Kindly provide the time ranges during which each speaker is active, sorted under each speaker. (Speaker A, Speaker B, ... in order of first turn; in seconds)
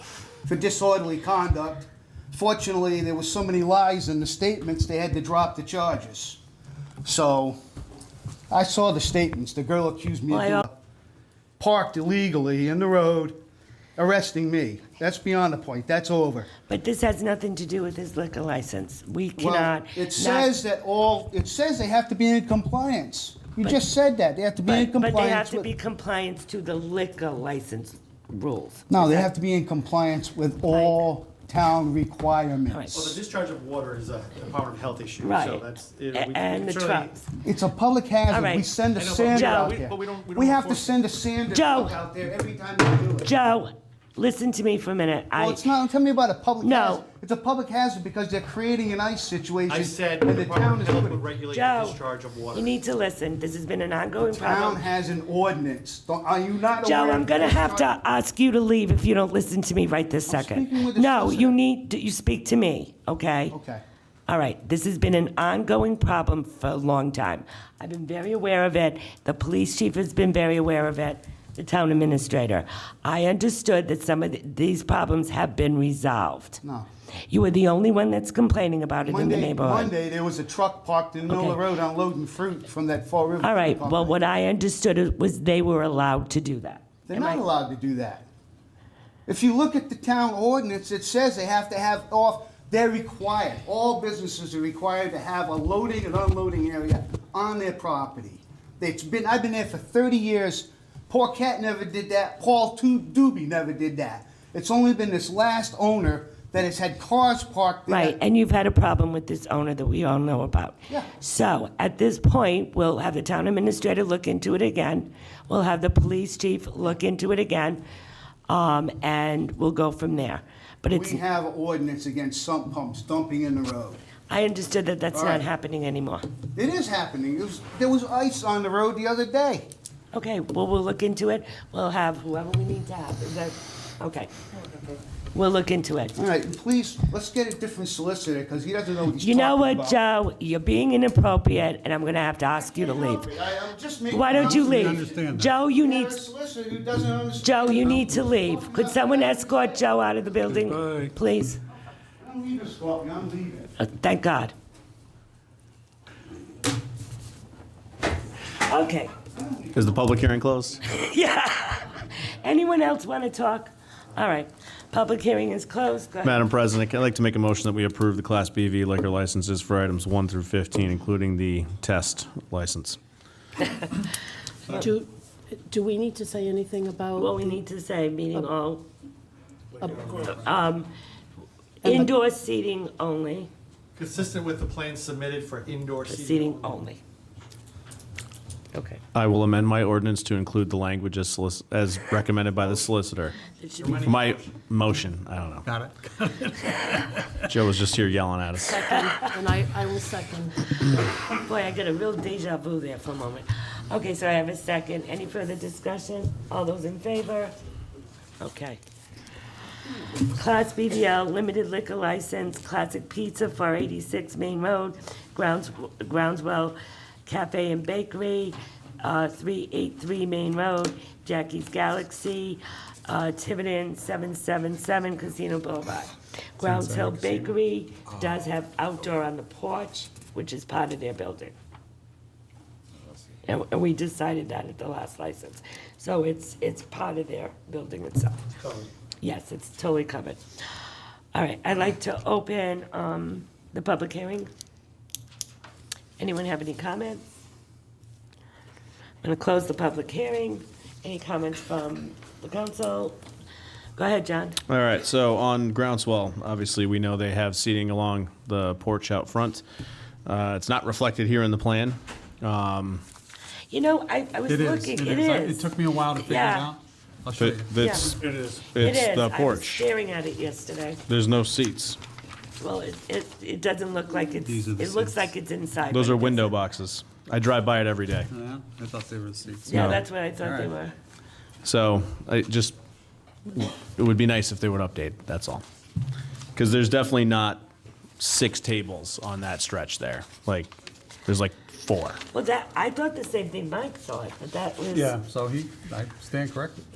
Speaker A: 0.4-6.4, 7.0-7.6, 8.5-10.8, 11.6-13.4, 13.9-16.5, 19.4-25.7, 28.9-33.1, 37.4-43.3, 45.4-51.2, 54.4-58.0, 60.3-61.6, 63.5-63.8, 79.0-84.3, 87.1-88.3, 89.3-108.2, 120.9-124.0, 125.1-125.5, 126.5-129.7, 136.2-140.0, 142.5-149.8, 152.2-153.7, 159.3-160.1
Speaker B: 10.3-10.6, 16.7-20.6, 24.6-29.3, 30.7-31.0, 32.7-33.2, 35.2-37.2, 38.3-38.7, 39.2-39.7, 41.5-41.9, 43.2-45.6, 46.6-47.0, 51.5-52.0, 52.5-54.8, 56.8-63.5, 64.3-76.6, 77.3-79.9, 81.3-81.6, 83.4-87.4, 107.9-117.8, 118.5-121.2, 124.3-126.3, 130.1-134.3, 135.3-136.2, 139.2-143.3, 144.1-146.2, 147.4-151.6, 153.8-154.5, 158.7-159.1, 160.8-166.4, 177.1-178.8, 180.2-180.9, 181.8-183.5, 186.1-187.0, 188.7-189.0, 193.6-194.2, 201.4-207.5, 208.4-208.8, 210.2-231.5, 233.4-238.4, 239.2-240.4, 241.3-244.5, 246.2-247.2, 249.2-253.2, 254.0-254.6, 263.7-266.7, 267.8-268.1, 268.8-271.0, 272.6-276.6, 279.7-280.9, 292.3-295.2
Speaker C: 32.9-37.2, 38.9-41.0, 49.7-52.8, 179.7-180.5, 183.9-186.8, 192.6-192.8, 193.8-194.5, 238.6-238.9
Speaker D: 144.3-145.5, 150.5-151.1, 195.6-197.5, 226.6-227.5, 264.5-267.9, 274.4-275.3, 278.3-280.7, 294.9-296.8
Speaker E: 159.7-160.9, 166.2-173.0, 189.1-193.3, 194.0-195.7, 197.5-198.9, 254.7-259.6, 260.2-263.0, 267.4-269.8, 271.1-272.0, 275.9-278.3, 279.7-280.0, 281.6-282.8, 283.5-285.6, 286.5-287.6, 288.2-290.7, 291.2-292.2
Speaker F: 174.7-177.6, 179.8-180.1, 181.8-182.1, 198.6-200.7